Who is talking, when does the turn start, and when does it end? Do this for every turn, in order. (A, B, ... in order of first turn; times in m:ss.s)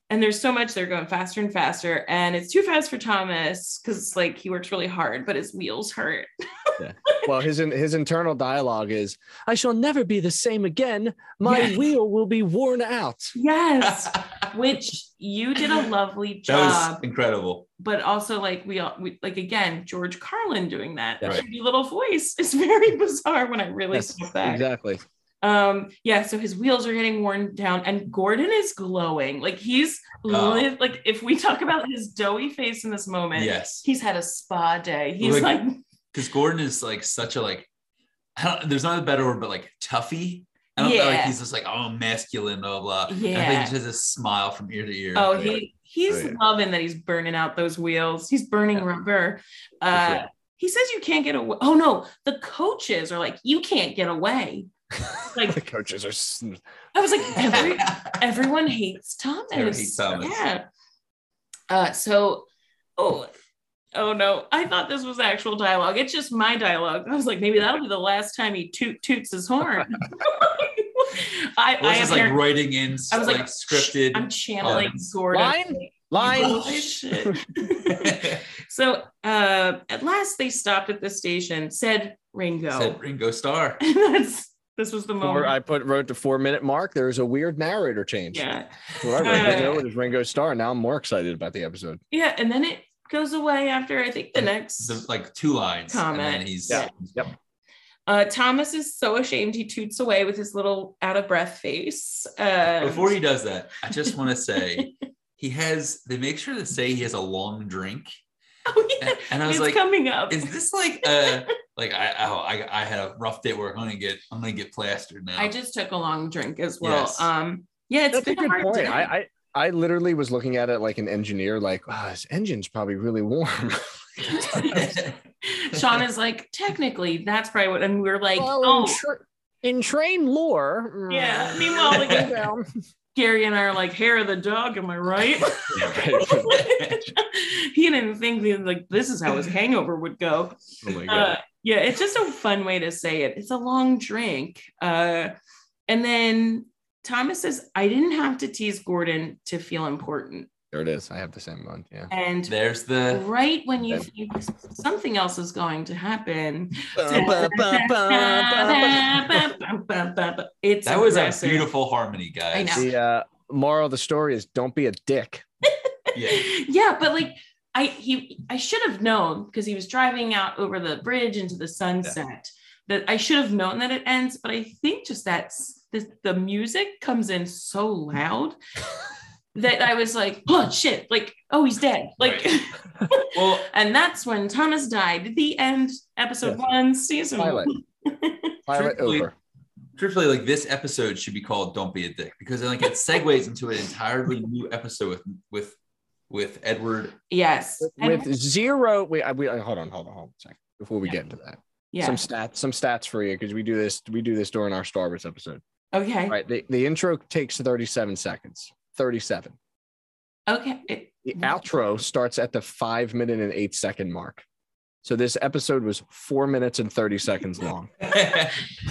0:00.1-0:07.3 A
0:06.8-0:13.3 B
0:11.4-0:11.8 A
0:13.3-0:17.0 A
0:13.9-0:14.2 C
0:16.5-0:17.6 C
0:17.8-0:24.6 A
0:23.9-0:25.0 B
0:25.4-0:35.8 A
0:30.3-0:30.7 C
0:33.3-0:33.8 C
0:35.2-0:35.6 C
0:36.1-0:37.7 C
0:38.4-0:45.5 C
0:40.8-0:41.4 A
0:43.1-0:43.7 A
0:45.1-0:54.7 A
0:46.1-0:46.4 B
0:49.9-0:50.2 B
0:55.0-0:56.6 B
0:55.3-0:55.6 A
0:56.9-1:00.6 A
0:57.2-0:57.7 B
0:57.4-0:58.2 C
0:59.5-1:00.4 C
1:01.7-1:03.3 A
1:03.9-1:12.4 A
1:11.8-1:15.0 C
1:13.1-1:23.0 A
1:15.3-1:17.4 B
1:16.2-1:16.8 C
1:17.8-1:18.4 C
1:22.7-1:23.8 C
1:23.8-1:25.5 A
1:25.2-1:28.4 B
1:28.3-1:29.8 A
1:29.0-1:32.0 B
1:29.3-1:29.6 C
1:32.1-1:35.0 A
1:34.8-1:37.2 C
1:35.9-1:36.9 A
1:36.7-1:37.3 B
1:38.1-1:43.2 A
1:42.8-1:48.1 C
1:48.7-1:50.5 A
1:49.0-1:55.5 C
1:51.0-1:51.4 A
1:55.4-1:59.1 A
1:56.8-1:57.3 C
1:58.1-2:05.0 B
2:04.2-2:09.0 A
2:04.7-2:05.1 C
2:08.4-2:12.7 B
2:11.1-2:12.4 A
2:11.9-2:12.2 C
2:13.1-2:25.3 A
2:15.7-2:16.5 B
2:16.5-2:17.0 C
2:20.8-2:21.3 B
2:25.9-2:30.5 A
2:30.7-2:32.1 B
2:32.1-2:32.5 A
2:32.5-2:33.2 C
2:33.1-2:41.7 A
2:36.9-2:39.5 B
2:40.8-2:42.9 C
2:42.5-2:42.9 A
2:42.8-2:45.4 B
2:45.9-2:58.6 A
2:46.1-2:46.5 C
2:59.5-3:08.6 A
3:02.2-3:02.5 C
3:03.3-3:03.6 C
3:07.4-3:07.7 B
3:08.7-3:09.3 B
3:08.7-3:09.3 C
3:10.0-3:15.8 C
3:16.3-3:17.2 C
3:17.3-3:18.3 A
3:17.8-3:25.6 B
3:21.9-3:22.2 A
3:25.9-3:26.4 A
3:26.3-3:29.5 B
3:30.5-3:31.6 A
3:31.2-3:34.4 B
3:35.0-3:37.9 B
3:38.0-3:38.6 C